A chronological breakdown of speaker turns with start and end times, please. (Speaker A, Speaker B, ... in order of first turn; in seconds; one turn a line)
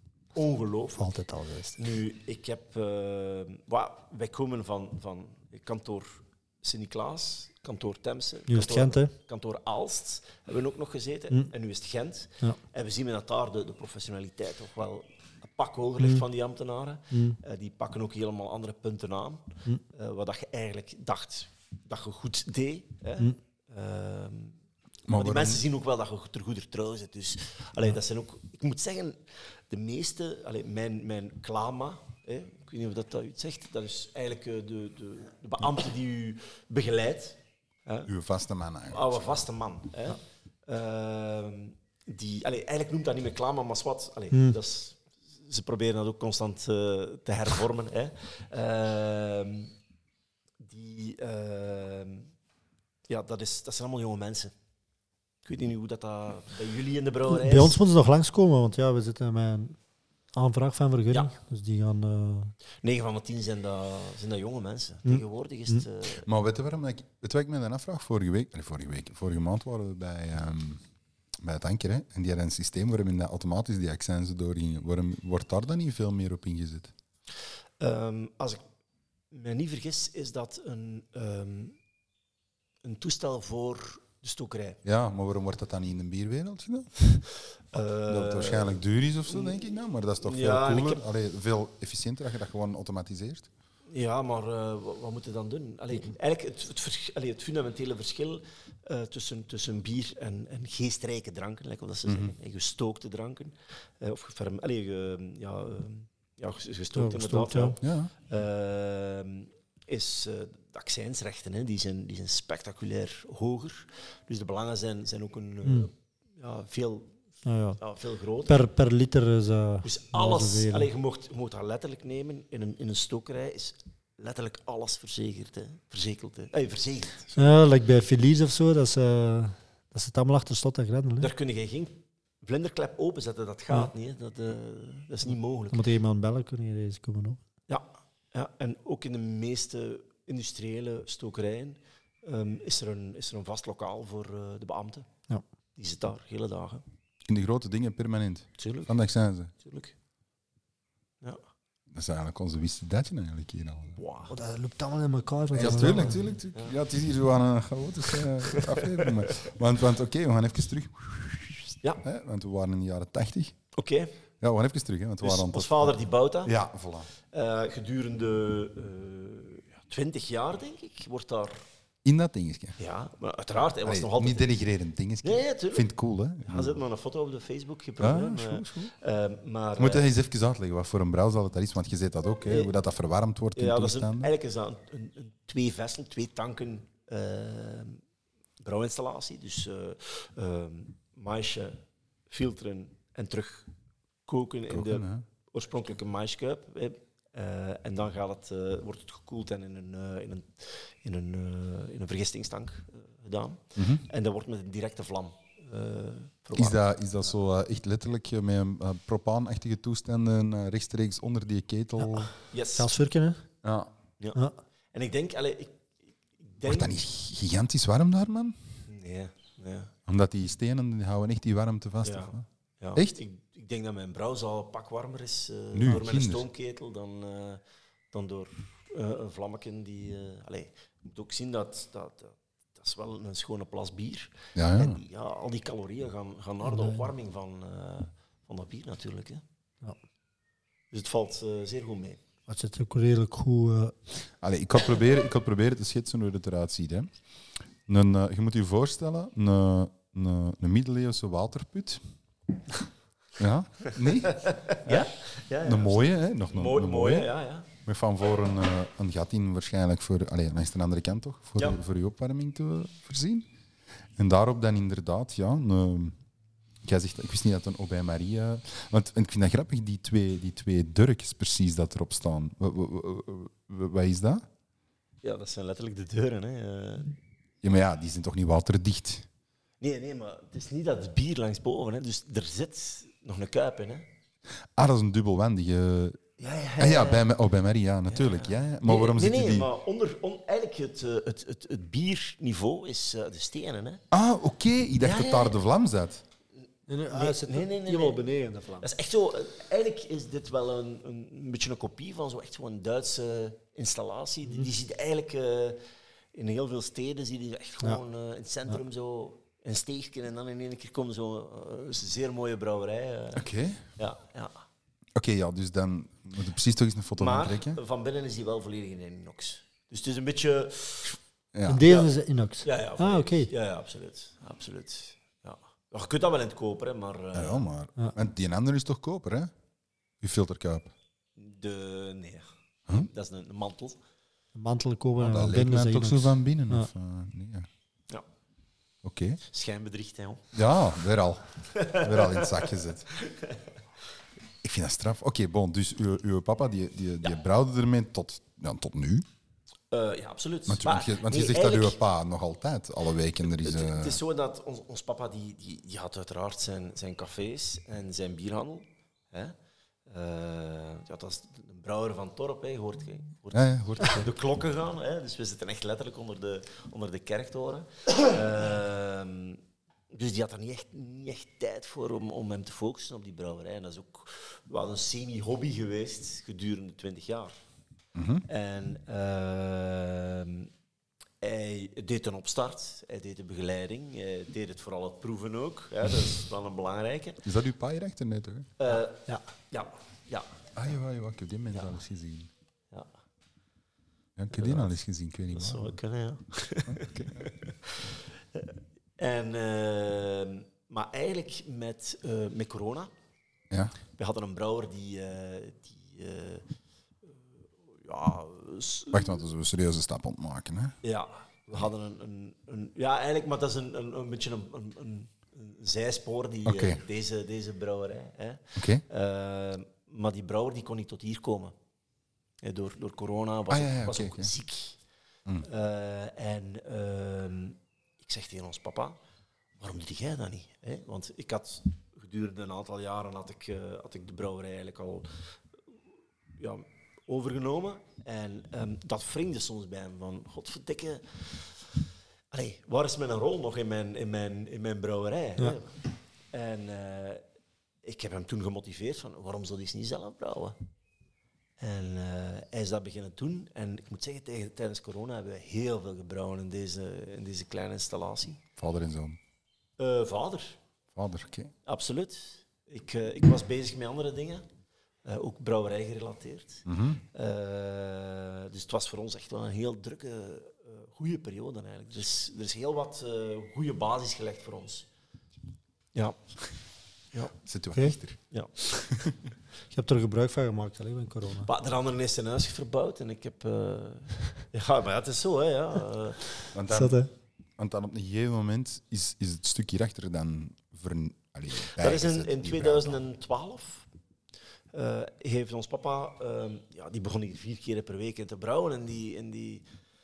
Speaker A: 0.3-1.1
Speaker B: 1.0-1.8
Speaker A: 1.8-24.6
Speaker B: 8.5-9.1
Speaker B: 17.1-17.4
Speaker C: 25.1-25.6
Speaker A: 25.1-29.2
Speaker A: 29.7-38.1
Speaker C: 38.1-39.4
Speaker A: 38.9-49.7
Speaker B: 44.3-44.6
Speaker A: 50.6-52.3
Speaker A: 53.1-54.5
Speaker A: 55.4-57.8
Speaker B: 57.3-59.8
Speaker B: 60.3-62.5
Speaker A: 62.8-66.3
Speaker B: 65.0-65.8
Speaker C: 66.2-70.8
Speaker C: 71.4-76.9
Speaker A: 77.8-78.6
Speaker A: 79.3-81.8
Speaker A: 82.8-84.8
Speaker C: 84.8-87.0
Speaker A: 87.7-89.7
Speaker C: 88.0-93.5
Speaker A: 90.2-91.0
Speaker A: 93.9-117.1
Speaker C: 102.0-102.3
Speaker B: 107.0-107.7
Speaker C: 107.8-108.1
Speaker B: 117.4-117.8
Speaker A: 117.8-118.6
Speaker B: 118.5-120.9
Speaker A: 119.8-127.5
Speaker B: 127.3-131.3
Speaker A: 131.2-135.8
Speaker B: 135.7-137.4
Speaker A: 137.7-145.1
Speaker A: 145.8-146.8
Speaker C: 147.2-149.5
Speaker A: 148.6-148.9
Speaker A: 149.6-149.9
Speaker C: 151.9-154.0
Speaker A: 154.0-154.3
Speaker B: 154.3-156.3
Speaker C: 155.5-163.5
Speaker A: 158.2-159.5
Speaker A: 163.8-164.1
Speaker C: 164.4-167.1
Speaker A: 165.2-166.5
Speaker A: 167.3-171.6
Speaker C: 172.0-172.8
Speaker A: 172.8-174.5
Speaker C: 173.8-176.8
Speaker A: 175.2-175.9
Speaker A: 176.4-180.1
Speaker C: 178.0-178.9
Speaker C: 179.8-184.3
Speaker A: 182.4-182.7
Speaker A: 183.6-188.0
Speaker A: 188.6-191.8
Speaker A: 192.3-193.7
Speaker A: 194.3-206.8
Speaker C: 194.7-195.2
Speaker C: 203.8-204.0
Speaker C: 206.5-212.3
Speaker B: 212.0-213.4
Speaker A: 212.5-212.9
Speaker C: 213.6-213.9
Speaker A: 214.9-215.8
Speaker A: 216.4-217.0
Speaker C: 216.6-218.6
Speaker A: 218.9-219.9
Speaker C: 220.1-223.1
Speaker A: 222.0-227.6
Speaker C: 225.7-226.4
Speaker A: 228.1-239.4
Speaker C: 234.5-235.0
Speaker B: 236.6-237.1
Speaker A: 240.9-242.2
Speaker B: 242.5-244.0
Speaker C: 244.4-247.1
Speaker C: 247.8-252.0
Speaker C: 253.4-255.1
Speaker A: 253.9-257.7
Speaker C: 255.6-263.5
Speaker C: 264.1-266.1
Speaker C: 266.8-274.4
Speaker A: 275.2-277.1
Speaker C: 277.6-279.3
Speaker A: 279.8-284.1
Speaker C: 284.8-286.2
Speaker A: 286.4-287.3
Speaker C: 286.8-289.7
Speaker A: 288.1-294.0
Speaker C: 294.1-296.2
Speaker A: 295.0-295.6
Speaker B: 296.9-298.9
Speaker A: 297.1-298.2
Speaker A: 298.8-305.8
Speaker A: 306.3-313.5
Speaker C: 313.4-313.8
Speaker A: 314.0-314.5
Speaker C: 315.1-317.8
Speaker A: 317.2-321.2
Speaker C: 321.5-321.8
Speaker B: 321.7-323.5
Speaker A: 321.8-322.1
Speaker A: 322.6-327.6
Speaker C: 327.3-329.5
Speaker C: 330.2-330.9
Speaker A: 331.4-334.0
Speaker B: 334.5-336.9
Speaker C: 335.2-337.7
Speaker C: 339.0-339.4
Speaker A: 339.5-340.5
Speaker C: 340.5-343.1
Speaker A: 341.7-343.6
Speaker C: 344.6-349.2
Speaker A: 349.9-352.0
Speaker C: 350.7-354.2
Speaker A: 353.5-359.5
Speaker A: 360.1-377.6
Speaker C: 363.5-364.3
Speaker C: 378.1-378.4
Speaker A: 378.5-380.7
Speaker A: 381.4-387.4
Speaker C: 387.4-388.7
Speaker A: 388.8-390.6
Speaker C: 390.8-392.5
Speaker C: 394.4-395.9
Speaker A: 394.5-394.9
Speaker A: 395.5-403.1
Speaker C: 396.9-397.5
Speaker C: 403.7-403.9
Speaker A: 404.2-406.6
Speaker A: 408.0-409.4
Speaker C: 409.1-410.9
Speaker A: 411.0-421.7
Speaker C: 416.6-417.0
Speaker C: 418.8-419.0
Speaker A: 422.6-425.0
Speaker C: 423.7-424.5
Speaker A: 425.6-429.2
Speaker A: 429.8-435.3
Speaker A: 436.6-441.7
Speaker A: 442.5-446.0
Speaker A: 446.5-447.4
Speaker A: 448.0-450.8
Speaker A: 451.8-458.6
Speaker C: 458.8-459.4
Speaker A: 460.0-460.8
Speaker C: 461.1-461.7
Speaker A: 461.9-464.6
Speaker A: 465.2-475.1
Speaker C: 466.9-467.2
Speaker C: 477.6-478.4
Speaker C: 479.0-479.4
Speaker B: 479.9-481.7
Speaker A: 481.6-486.5
Speaker C: 486.7-487.2
Speaker B: 486.9-487.3
Speaker C: 487.8-493.1
Speaker A: 492.0-494.1
Speaker A: 494.9-499.9